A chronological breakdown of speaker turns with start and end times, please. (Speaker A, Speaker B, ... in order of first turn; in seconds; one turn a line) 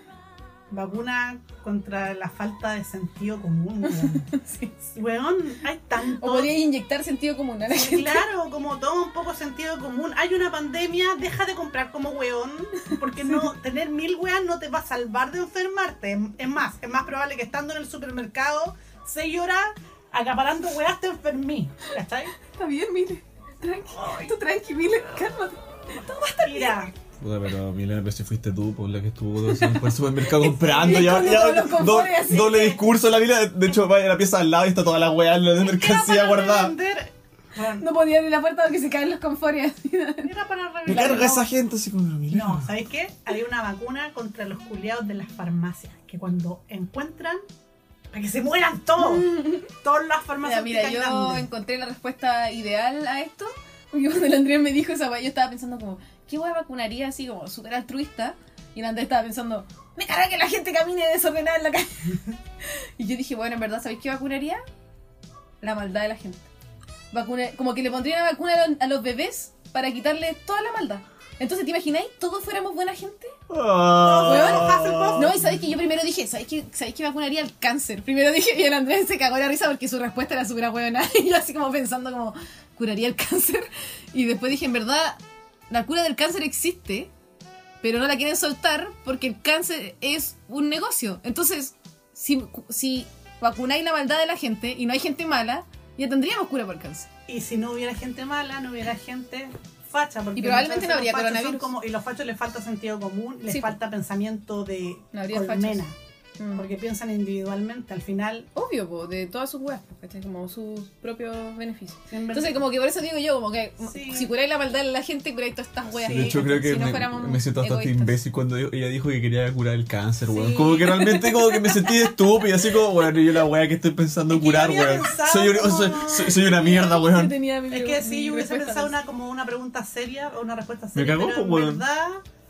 Speaker A: 0.7-4.3
Speaker B: 3.9-4.7
Speaker A: 4.9-6.5
Speaker B: 6.2-8.2
Speaker A: 7.7-22.4
Speaker B: 22.5-26.9
Speaker A: 24.0-24.3
Speaker A: 26.5-26.9
Speaker C: 27.2-36.8
Speaker B: 29.5-32.8
Speaker A: 30.7-31.3
Speaker A: 35.6-37.9
Speaker B: 37.8-40.3
Speaker A: 40.2-41.5
Speaker C: 40.9-42.7
Speaker B: 40.9-41.4
Speaker A: 42.3-47.4
Speaker A: 48.1-51.5
Speaker B: 49.0-49.7
Speaker B: 50.4-64.6
Speaker B: 65.6-66.5
Speaker B: 67.1-73.3
Speaker C: 73.5-75.4
Speaker A: 74.0-75.4
Speaker B: 74.2-87.1
Speaker B: 87.8-97.1
Speaker A: 97.3-106.0
Speaker B: 100.3-101.7
Speaker B: 103.5-103.7
Speaker B: 105.1-105.8
Speaker B: 106.4-106.7
Speaker A: 106.5-108.5
Speaker B: 108.5-118.2
Speaker A: 112.1-112.6
Speaker A: 113.8-114.3
Speaker A: 116.0-116.3
Speaker C: 116.0-127.3
Speaker A: 120.3-121.0
Speaker B: 120.3-122.3
Speaker A: 124.3-126.8
Speaker B: 126.3-128.9
Speaker A: 127.7-132.2
Speaker C: 130.9-131.8